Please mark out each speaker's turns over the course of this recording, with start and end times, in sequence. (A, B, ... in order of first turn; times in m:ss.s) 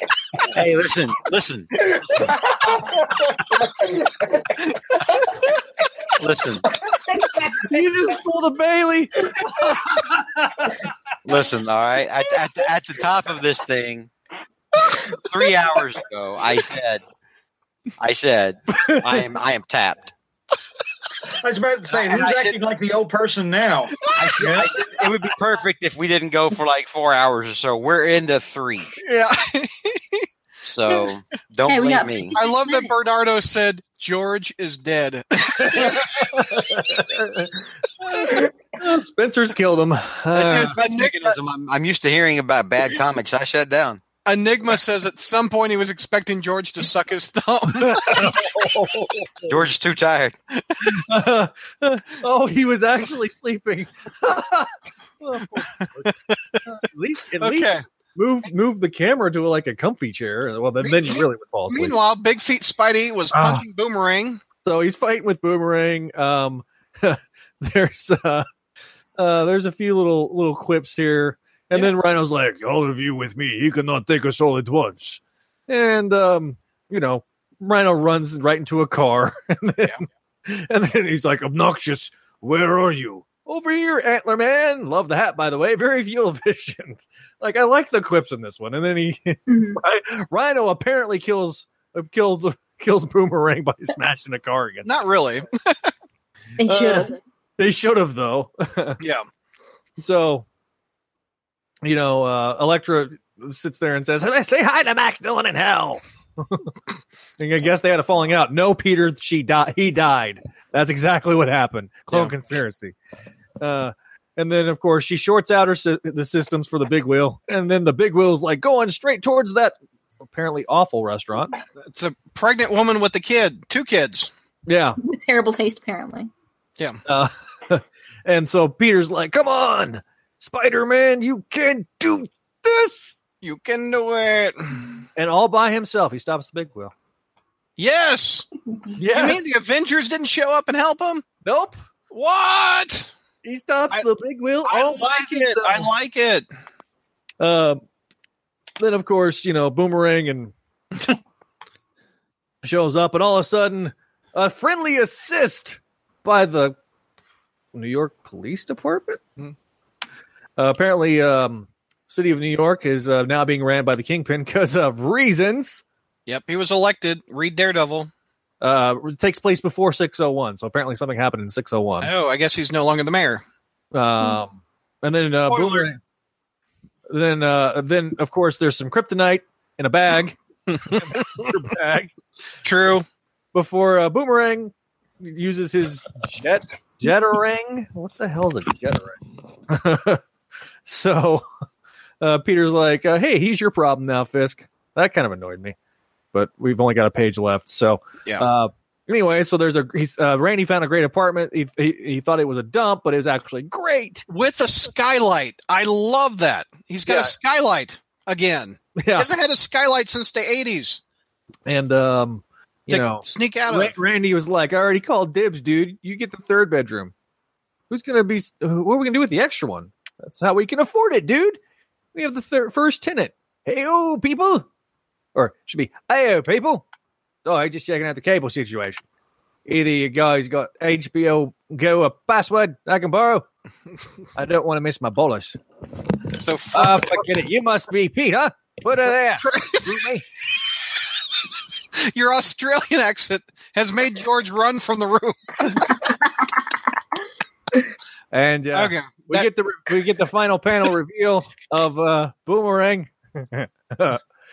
0:00.5-0:01.8 A
0:06.2-0:06.6 A
0:07.6-0:10.9 B
0:11.2-0:14.1 A
0:15.2-0:17.0 A
0:18.0-0:20.1 A
0:18.9-0:19.2 B
0:21.4-0:24.7 C
0:21.9-0:22.6 A
0:24.1-0:28.9 A
0:24.2-0:24.5 D
0:29.0-0:30.2 D
0:30.7-0:32.4 A
0:31.6-0:32.9 E
0:32.4-0:36.0 D
0:35.5-0:40.8 B
0:40.3-0:41.4 D
0:40.5-0:44.0 A
0:44.2-0:48.4 D
0:47.7-0:49.6 B
0:49.5-0:50.4 A
0:50.5-0:50.9 D
0:50.8-1:02.0 B
0:55.8-0:56.4 D
0:57.4-0:57.8 D
1:00.8-1:04.4 D
1:03.3-1:03.6 C
1:04.6-1:08.4 B
1:09.2-1:34.9 B
1:29.5-1:29.8 E
1:34.8-1:35.9 D
1:36.6-1:37.2 E
1:36.6-1:39.0 B
1:39.0-1:39.2 D
1:40.0-1:40.4 B
1:41.8-1:46.7 B
1:47.4-1:52.9 B
1:53.6-2:01.5 B
2:01.8-2:04.3 D
2:04.7-2:05.0 B
2:05.0-2:06.3 E
2:07.0-2:13.1 B
2:13.4-2:14.9 D
2:15.2-2:16.9 B
2:17.8-2:18.5 D
2:19.0-2:19.5 B
2:19.1-2:21.2 D
2:21.4-2:21.8 B
2:22.1-2:23.1 D
2:23.4-2:25.9 B
2:24.6-2:26.4 D
2:27.4-2:27.8 B
2:28.8-2:31.2 B
2:32.6-2:36.8 B
2:37.7-2:39.3 B
2:40.6-2:45.8 B
2:46.3-2:48.1 D
2:48.6-2:52.1 B
2:52.0-2:53.4 D
2:53.9-2:56.0 B
2:55.5-2:55.9 D
2:57.1-3:02.1 B
3:00.7-3:01.5 D
3:02.6-3:03.0 D
3:03.5-3:10.2 B
3:10.8-3:11.4 B
3:12.2-3:15.7 B
3:16.3-3:24.2 B
3:24.3-3:31.0 D
3:27.0-3:27.3 B
3:29.0-3:29.3 B
3:31.7-3:37.1 B
3:32.9-3:34.0 D
3:37.9-3:41.6 B
3:42.1-3:44.7 B
3:45.3-3:46.8 B
3:47.4-3:49.0 B
3:49.6-3:53.4 B
3:54.4-3:55.6 B
3:56.4-3:57.3 D
3:56.7-4:00.2 B
3:59.4-4:00.0 D
4:01.9-4:06.0 D
4:08.3-4:14.2 B
4:08.7-4:09.5 D